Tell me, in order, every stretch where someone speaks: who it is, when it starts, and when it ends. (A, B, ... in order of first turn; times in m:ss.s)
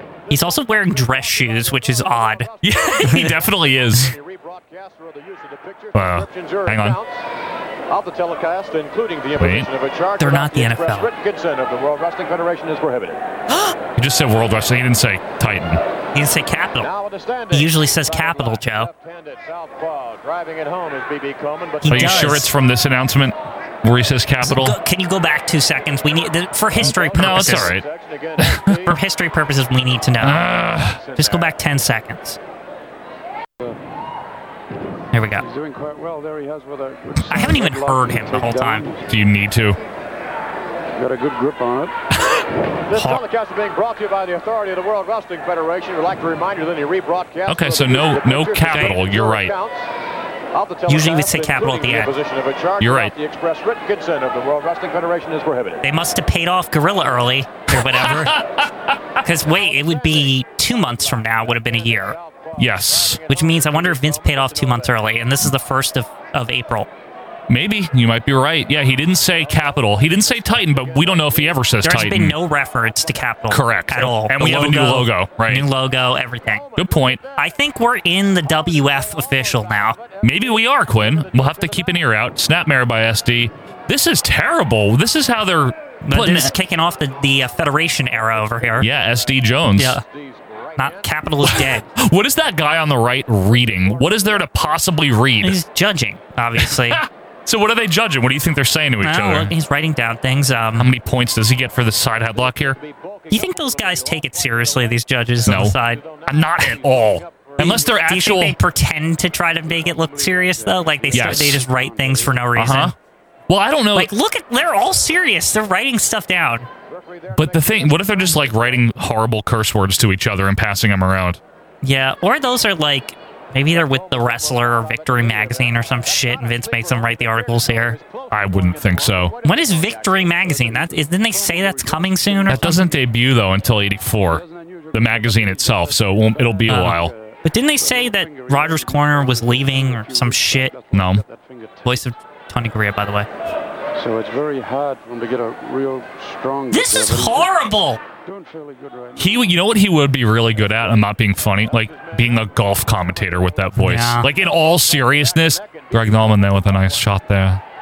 0:00.3-0:07.2 A
0:00.3-0:03.3 B
0:02.6-0:04.1 C
0:05.9-0:07.0 C
0:07.9-0:13.2 A
0:09.4-0:09.7 C
0:10.2-0:11.1 B
0:14.0-0:15.8 C
0:16.1-0:16.9 B
0:16.8-0:22.4 A
0:17.5-0:18.9 B
0:21.8-0:22.5 B
0:21.9-0:24.8 C
0:24.4-0:27.7 B
0:26.8-0:29.0 A
0:26.8-0:27.8 C
0:28.4-0:28.7 C
0:28.8-0:30.4 B
0:30.2-0:31.0 C
0:30.9-0:31.6 A
0:31.2-0:32.4 B
0:35.1-0:35.4 B
0:35.4-0:39.1 D
0:37.3-0:38.9 B
0:39.1-0:39.8 C
0:40.9-0:42.0 D
0:42.9-0:49.9 A
0:42.9-0:43.2 B
0:47.4-0:49.5 C
0:50.5-0:55.8 A
0:50.9-0:52.1 B
0:52.8-0:53.1 C
0:55.8-0:58.4 B
0:57.7-0:59.2 C
0:59.2-1:02.2 B
0:59.4-1:05.4 A
1:02.6-1:03.2 C
1:03.3-1:06.9 B
1:07.5-1:12.4 C
1:09.2-1:12.1 A
1:11.8-1:16.6 B
1:13.0-1:13.2 A
1:13.5-1:15.7 C
1:16.4-1:17.5 A
1:16.8-1:17.2 C
1:17.4-1:20.0 B
1:18.3-1:22.1 A
1:20.2-1:26.5 C
1:26.0-1:28.9 B
1:28.1-1:29.5 A
1:28.8-1:30.0 C
1:29.8-1:30.0 B
1:30.0-1:31.6 A
1:30.8-1:31.9 B
1:31.4-1:35.6 C
1:33.8-1:34.9 A
1:35.4-1:37.0 B
1:36.6-1:39.5 C
1:39.0-1:40.9 B
1:40.8-1:42.8 C
1:42.3-1:48.4 A
1:43.3-1:46.0 B
1:45.4-1:48.6 C
1:47.6-1:52.9 B
1:49.6-1:51.5 A
1:50.4-1:52.6 D
1:51.1-1:51.6 C
1:52.5-1:52.9 C
1:53.5-1:54.1 C
1:53.9-1:56.7 B
1:56.9-1:59.0 A
1:57.3-2:01.4 C
2:01.8-2:08.0 B
2:03.6-2:12.7 A
2:08.3-2:09.3 C
2:09.4-2:12.8 B
2:10.5-2:13.0 D
2:12.5-2:17.1 C
2:14.1-2:22.1 D
2:16.7-2:20.8 B
2:20.9-2:21.2 C
2:21.8-2:23.3 B
2:24.0-2:27.5 D
2:26.7-2:28.0 B
2:28.2-2:29.6 D
2:29.2-2:37.6 C
2:30.4-2:31.1 D
2:31.5-2:37.2 A
2:33.8-2:34.3 B